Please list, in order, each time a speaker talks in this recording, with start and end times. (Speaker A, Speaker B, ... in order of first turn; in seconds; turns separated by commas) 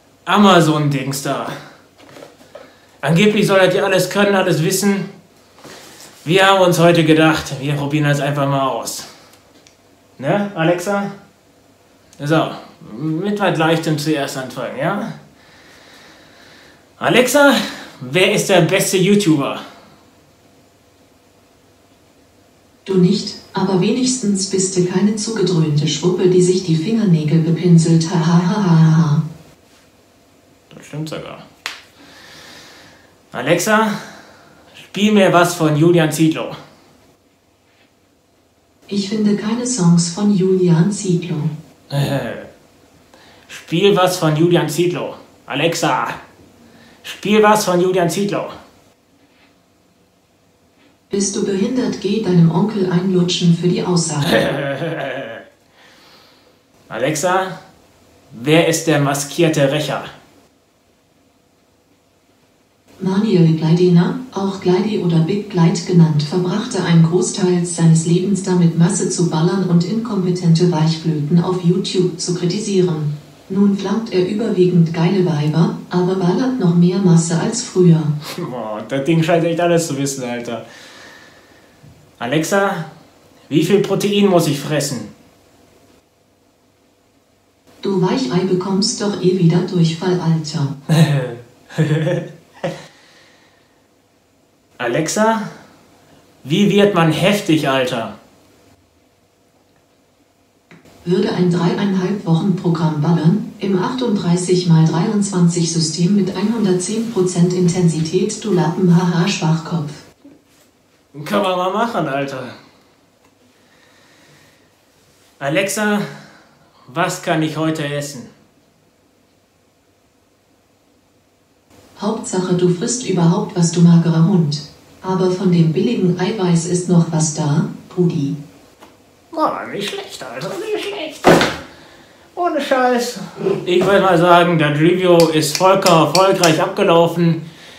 Speaker A: 0.3-1.5, Speaker A: 3.0-5.1, Speaker A: 6.2-9.1, Speaker A: 10.2-11.1, Speaker A: 12.2-15.1, Speaker A: 17.0-19.6, Speaker B: 22.9-29.2, Speaker A: 30.7-31.4, Speaker A: 33.3-34.0, Speaker A: 34.8-36.5, Speaker B: 38.9-41.5, Speaker A: 41.9-42.5, Speaker A: 43.5-46.2, Speaker A: 47.0-48.5, Speaker B: 51.1-54.4, Speaker A: 54.3-55.4, Speaker A: 56.9-57.5, Speaker A: 58.3-60.1, Speaker B: 63.0-78.2, Speaker A: 78.4-80.6, Speaker A: 82.2-82.9, Speaker A: 83.5-85.1, Speaker B: 87.8-90.8, Speaker A: 90.9-92.3, Speaker A: 94.8-95.5, Speaker A: 96.4-98.2, Speaker B: 101.0-110.0, Speaker A: 111.2-112.5, Speaker A: 115.4-116.1, Speaker A: 116.9-118.3, Speaker B: 122.0-128.4, Speaker A: 129.3-131.5, Speaker A: 132.3-137.4